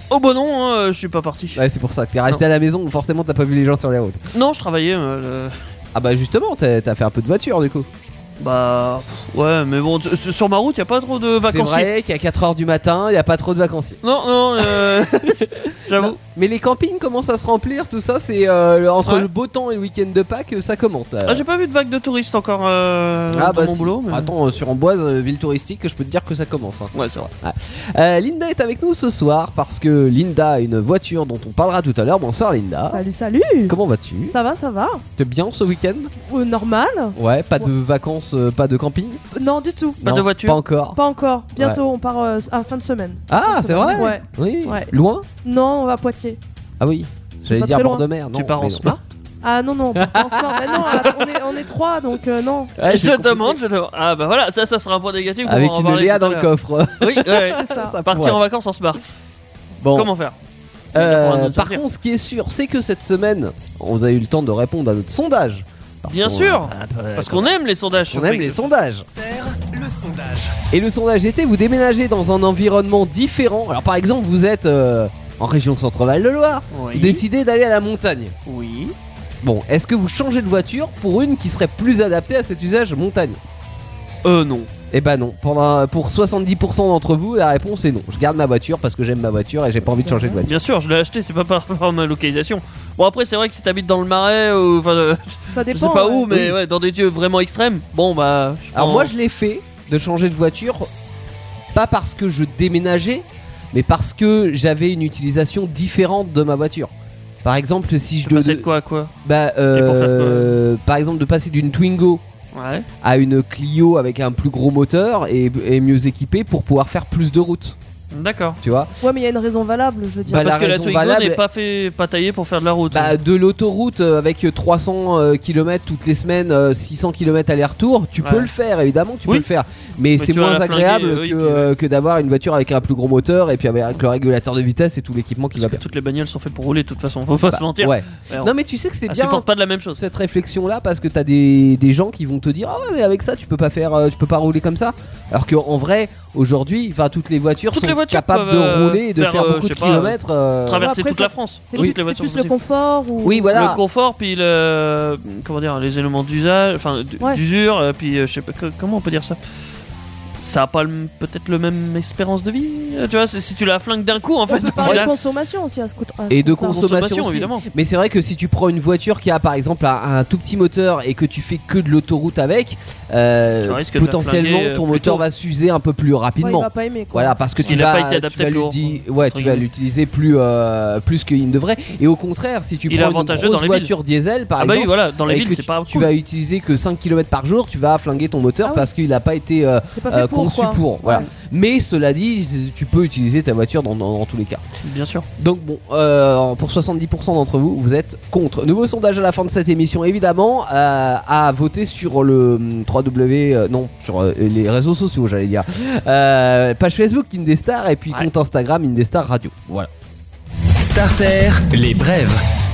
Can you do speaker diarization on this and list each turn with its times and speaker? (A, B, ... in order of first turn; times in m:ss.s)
0:00.1-0:01.6 A
0:01.6-0:04.2 B
0:04.3-0:05.6 A
0:06.0-0:07.9 B
0:08.4-0:11.9 A
0:11.4-0:14.0 B
0:14.0-0:16.2 A
0:14.6-0:21.4 B
0:21.3-0:24.3 A
0:23.3-0:33.0 B
0:26.9-0:27.3 A
0:32.9-0:33.8 C
0:33.7-0:34.4 B
0:34.3-0:35.0 C
0:35.2-0:36.1 B
0:36.2-0:37.7 C
0:37.2-0:39.2 B
0:39.3-0:40.0 C
0:40.0-0:41.0 B
0:40.0-0:40.6 A
0:41.0-0:44.9 C
0:43.3-0:45.3 B
0:45.4-0:46.4 C
0:46.8-0:49.0 B
0:47.5-0:48.0 C
0:48.3-0:49.0 A
0:49.4-0:52.7 C
0:50.0-0:51.3 B
0:52.8-0:53.6 B
0:52.9-0:59.1 A
0:55.4-0:58.4 B
0:57.6-0:58.0 C
0:59.8-1:00.1 B
0:59.9-1:00.4 A
1:00.9-1:01.8 A
1:00.9-1:09.1 B
1:06.0-1:08.7 A
1:09.2-1:10.6 D
1:10.7-1:18.3 B
1:16.7-1:17.2 A
1:18.5-1:19.0 A
1:19.4-1:23.4 B
1:24.2-1:24.7 A
1:24.9-1:30.6 B
1:30.0-1:30.4 C
1:30.5-1:39.1 A
1:35.5-1:36.3 C
1:36.3-1:36.6 B
1:38.7-1:40.9 B
1:41.7-1:46.9 B
1:47.4-1:48.7 B
1:48.2-1:49.1 A
1:49.2-1:52.2 B
1:49.7-1:50.6 A
1:52.5-1:52.9 A
1:53.0-1:57.8 B
1:58.1-1:58.6 A
1:58.6-1:58.9 B
1:59.0-2:00.5 C
2:00.3-2:01.4 B
2:00.3-2:03.2 A
2:02.9-2:15.8 B
2:08.2-2:08.5 A
2:10.2-2:11.7 A
2:15.6-2:18.5 A
2:17.5-2:30.9 B
2:19.1-2:20.0 A
2:27.7-2:32.5 A
2:30.8-2:33.6 C
2:33.2-2:33.8 B
2:33.5-2:39.4 A
2:40.4-2:45.1 A
2:44.5-2:46.8 C
2:44.8-2:45.1 B
2:46.3-3:14.6 B
2:46.6-2:47.6 A
2:53.6-2:55.2 A
2:56.4-2:57.8 C
2:57.6-2:59.6 A
3:02.9-3:03.9 A
3:04.6-3:06.1 A
3:09.9-3:11.3 C
3:14.8-3:15.3 A
3:15.4-3:29.9 B
3:30.8-3:32.4 D